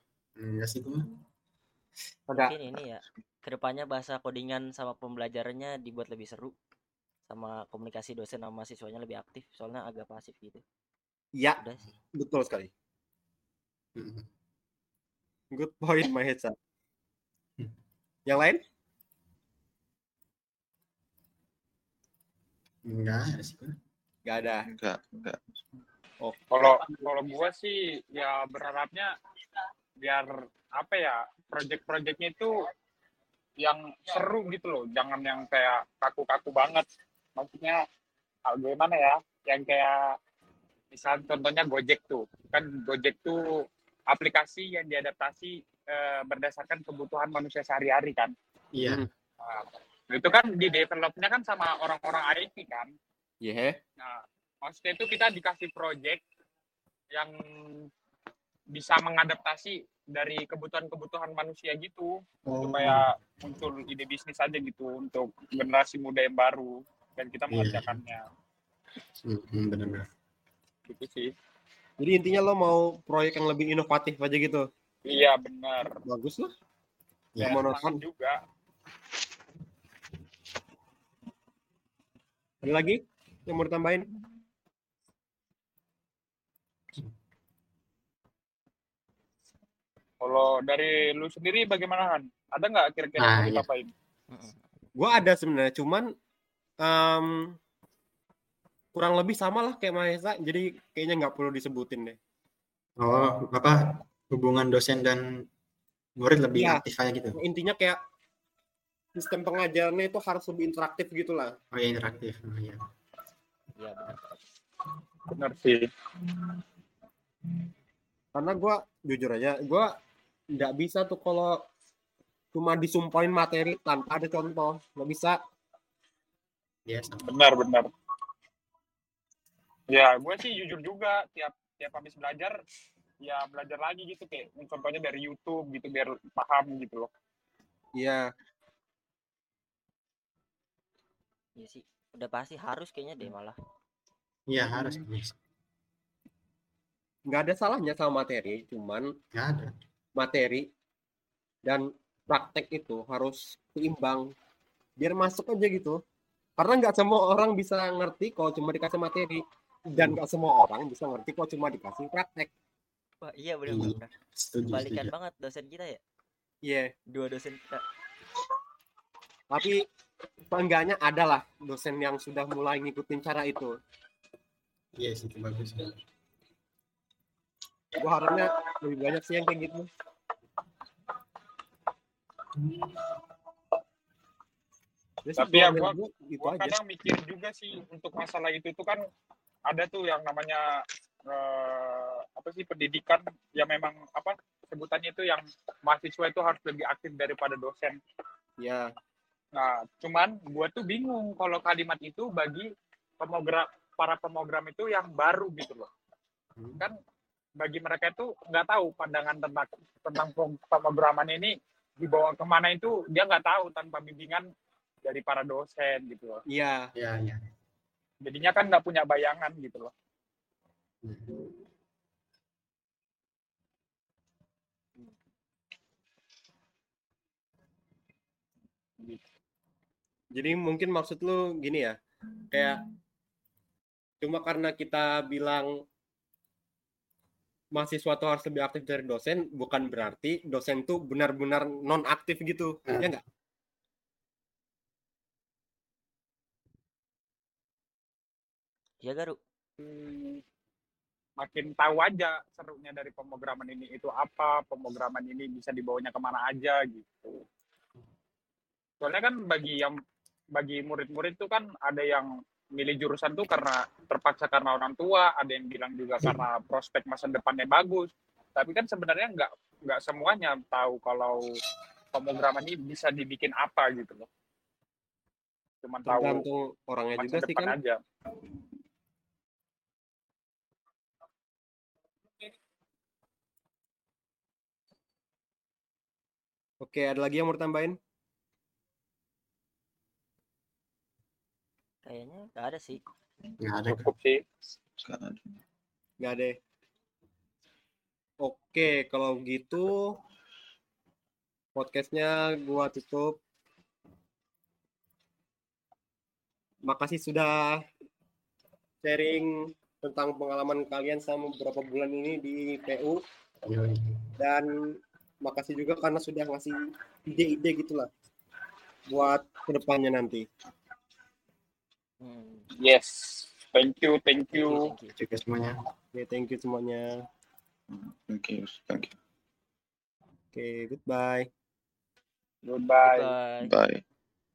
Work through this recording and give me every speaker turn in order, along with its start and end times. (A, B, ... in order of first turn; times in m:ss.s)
0:00.4-0:01.1 A
0:02.3-0:02.6 B
0:02.4-0:06.5 C
0:07.3-0:10.6 C
0:11.3-0:11.6 B
0:11.6-0:11.9 C
0:12.1-0:12.7 B
0:14.0-0:14.2 A
0:15.5-0:16.5 B
0:18.2-0:18.6 B
0:22.9-0:23.7 A
0:24.2-0:24.6 B
0:24.6-0:25.4 D
0:26.2-0:26.9 B
0:26.5-0:29.1 E
0:30.0-0:32.5 E
0:33.6-0:36.8 E
0:37.4-0:37.8 E
0:38.5-0:39.9 E
0:40.9-0:43.4 E
0:44.1-0:48.3 E
0:48.7-0:49.0 A
0:49.4-0:52.9 E
0:53.4-0:53.8 B
0:54.0-0:56.2 E
0:57.1-0:57.8 E
0:58.7-1:08.2 E
1:02.5-1:03.0 A
1:07.5-1:08.0 A
1:09.2-1:10.0 A
1:10.9-1:11.3 E
1:12.0-1:14.6 B
1:15.0-1:15.9 E
1:16.1-1:16.5 B
1:17.3-1:17.6 A
1:17.4-1:18.4 E
1:17.4-1:18.0 B
1:22.6-1:24.0 B
1:30.2-1:33.9 E
1:33.2-1:33.6 A
1:34.3-1:34.6 C
1:35.0-1:36.0 B
1:36.8-1:37.3 B
1:38.9-1:42.2 B
1:43.0-1:43.8 A
1:44.3-1:45.2 A
1:46.2-1:47.4 A
1:46.6-1:46.8 B
1:47.4-1:48.0 B
1:49.2-1:51.5 B
1:51.7-1:52.8 A
1:53.8-1:54.1 C
1:55.3-1:55.8 E
1:58.3-1:59.9 B
2:00.6-2:01.6 B
2:02.5-2:05.4 B
2:06.8-2:07.3 A
2:07.3-2:07.9 E
2:09.9-2:12.5 E
2:13.2-2:17.1 E
2:17.9-2:18.3 B
2:21.6-2:23.6 C
2:24.5-2:25.3 A
2:27.3-2:29.0 B
2:29.3-2:29.7 A
2:30.2-2:30.6 B
2:31.6-2:34.2 B
2:35.0-2:36.0 B
2:36.6-2:42.5 B
2:43.2-2:44.1 C
2:43.7-2:45.1 A
2:44.7-2:46.0 C
2:46.6-2:46.9 B
2:47.1-2:47.8 C
2:49.5-2:49.8 B
2:50.5-2:53.7 B
2:55.0-2:55.9 A
2:58.0-2:59.9 B
3:05.2-3:06.8 B
3:05.4-3:09.0 E
3:09.7-3:10.6 E
3:11.3-3:18.0 E
3:18.6-3:18.8 B
3:19.5-3:22.7 E
3:23.2-3:25.9 E
3:27.6-3:34.4 E
3:35.0-3:36.4 E
3:36.5-3:36.8 B
3:37.0-3:37.4 A
3:38.2-3:39.9 E
3:41.0-3:41.4 A
3:50.3-3:51.9 B
3:52.5-3:52.8 B
3:54.2-3:55.7 B
3:57.7-4:03.2 B
4:09.0-4:09.4 C
4:09.8-4:10.4 E
4:11.4-4:17.4 E
4:19.0-4:19.9 E
4:20.6-4:31.5 E
4:32.1-4:34.3 E
4:35.8-4:36.4 E
4:36.0-4:37.8 B
4:37.2-4:38.0 E
4:46.8-4:48.0 B
4:52.0-4:53.0 C
4:53.6-4:54.1 A
4:53.9-4:54.4 E
4:55.0-4:55.5 D
4:56.2-4:56.5 B
4:58.4-5:00.0 B
5:01.8-5:03.4 B
5:06.9-5:07.6 B
5:09.0-5:13.2 B
5:13.6-5:14.3 A
5:14.4-5:14.7 B
5:15.4-5:18.1 B
5:19.1-5:20.4 B
5:22.2-5:22.7 C
5:22.8-5:24.8 E
5:24.5-5:25.1 C
5:25.1-5:25.7 A
5:26.1-5:27.1 B
5:27.9-5:29.1 D
5:30.5-5:31.5 B
5:32.6-5:33.3 E
5:33.0-5:33.7 C
5:33.6-5:34.0 D